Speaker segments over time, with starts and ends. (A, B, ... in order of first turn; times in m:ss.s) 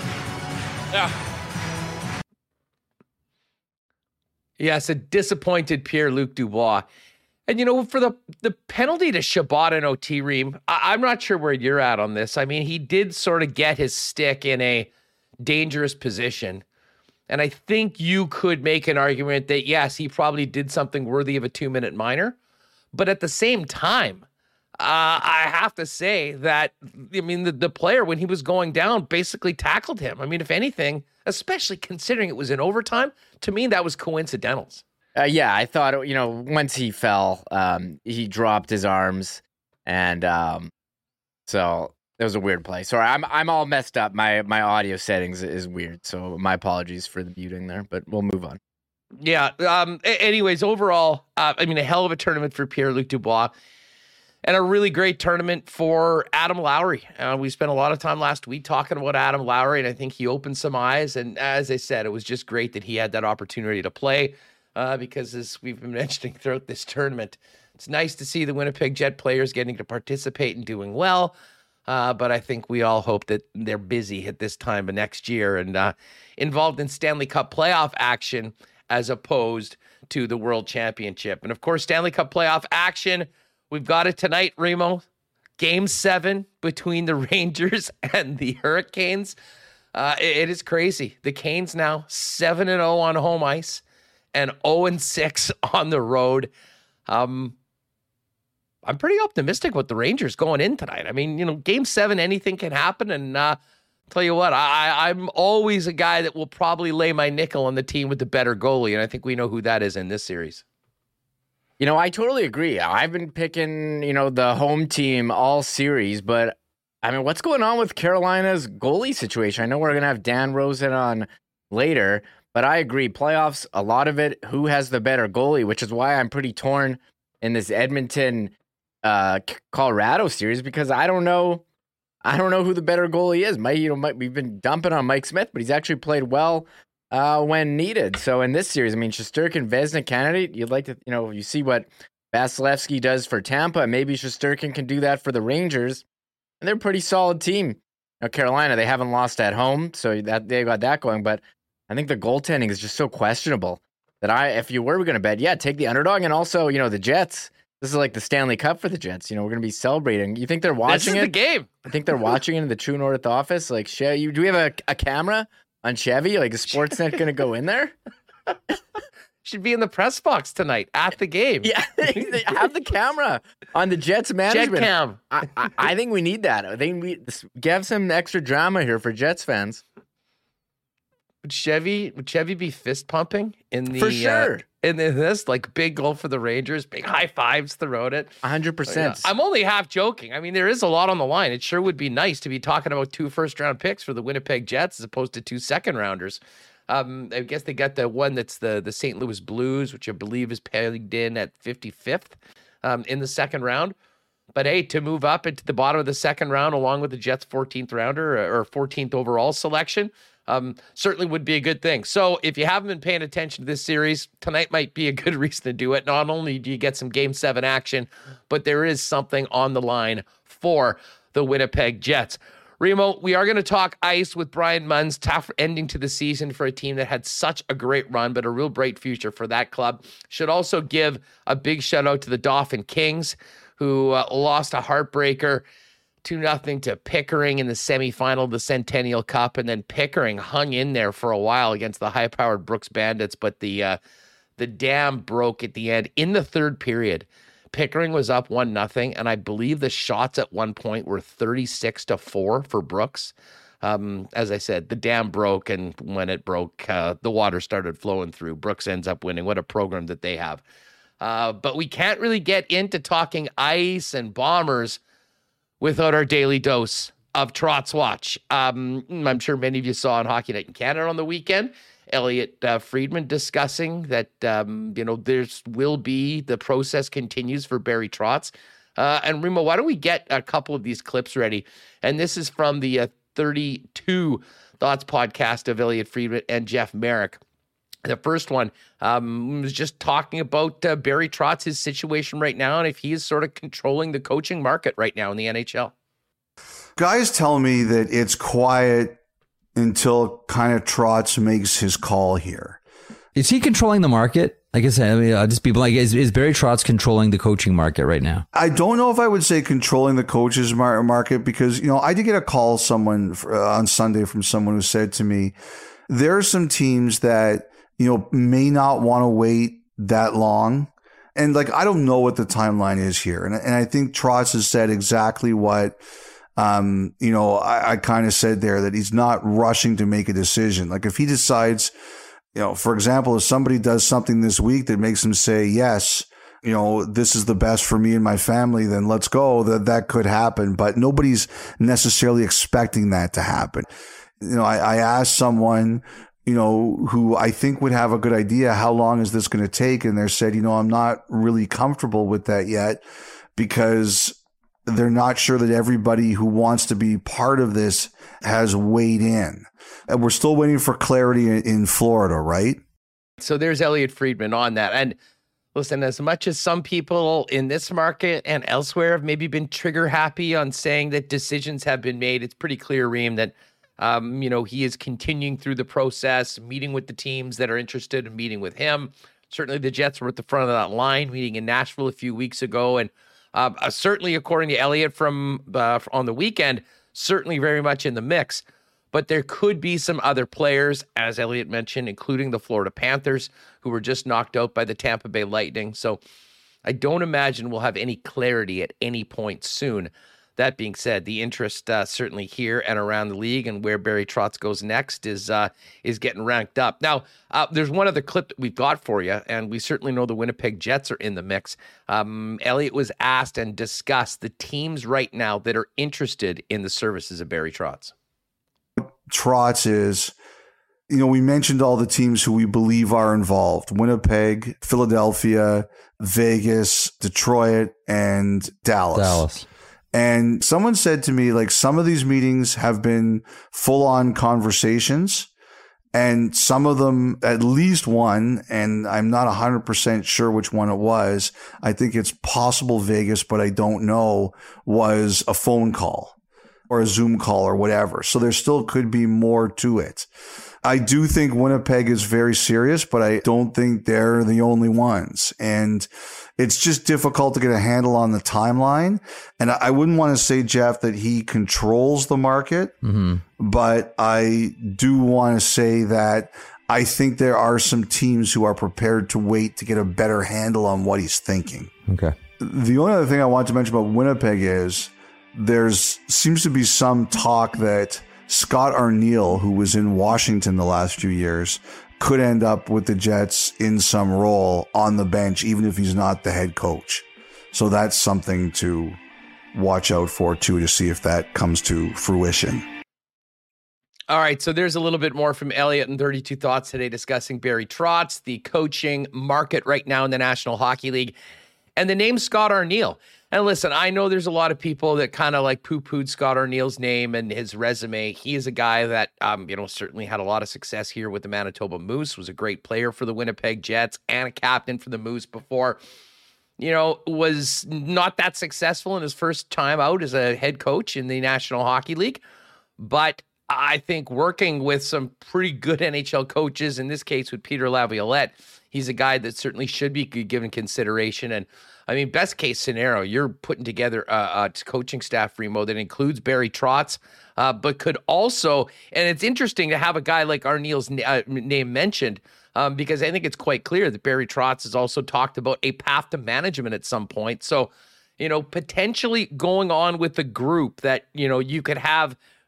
0:04.6-0:06.9 A
0:07.5-0:14.9 A
0:15.4-0:16.6 A
0:17.3-0:22.4 A
0:22.9-0:24.3 A
0:24.8-0:34.8 A
0:35.2-0:40.7 B
0:41.5-0:48.6 B
0:49.2-0:53.5 A
0:54.4-1:11.4 A
1:11.9-1:25.0 A
1:25.6-1:29.4 A
1:29.9-1:33.8 A
1:34.3-1:36.5 A
1:37.1-1:37.6 A
1:38.8-1:43.6 A
1:44.1-1:50.6 A
1:51.8-2:11.6 B
2:12.2-2:26.0 B
2:26.6-2:47.9 B
2:40.9-2:41.7 A
2:49.4-2:52.3 A
2:51.6-2:59.8 B
2:54.5-2:55.2 A
3:01.4-3:23.9 A
3:03.9-3:04.6 B
3:08.4-3:09.3 B
3:24.6-3:55.6 A
3:56.2-4:04.0 A
4:04.6-4:20.6 A
4:21.2-4:25.0 A
4:25.8-4:47.4 A
4:48.0-4:55.9 A
4:57.0-4:59.2 C
4:59.8-5:02.8 C
5:03.4-5:08.4 D
5:08.5-5:15.5 C
5:16.1-5:26.0 C
5:26.6-5:31.9 C
5:32.6-5:43.9 C
5:44.4-5:53.0 C
5:53.6-5:54.4 C
5:54.9-6:02.8 C
6:03.4-6:05.2 A
6:05.8-6:36.2 A
6:36.9-6:58.1 A
6:59.0-7:00.3 C
7:01.1-7:09.5 C
7:09.1-7:09.6 D
7:10.1-7:15.5 C
7:16.1-7:26.3 C
7:26.9-7:30.3 C
7:30.8-7:36.1 C
7:36.6-7:43.0 C
7:43.0-7:43.4 D
7:43.6-7:51.9 C
7:52.1-7:52.4 D
7:52.6-8:09.2 C
8:09.7-8:12.8 C
8:14.3-8:21.4 A
8:22.0-8:36.0 A
8:36.8-8:42.4 A
8:43.0-9:12.4 A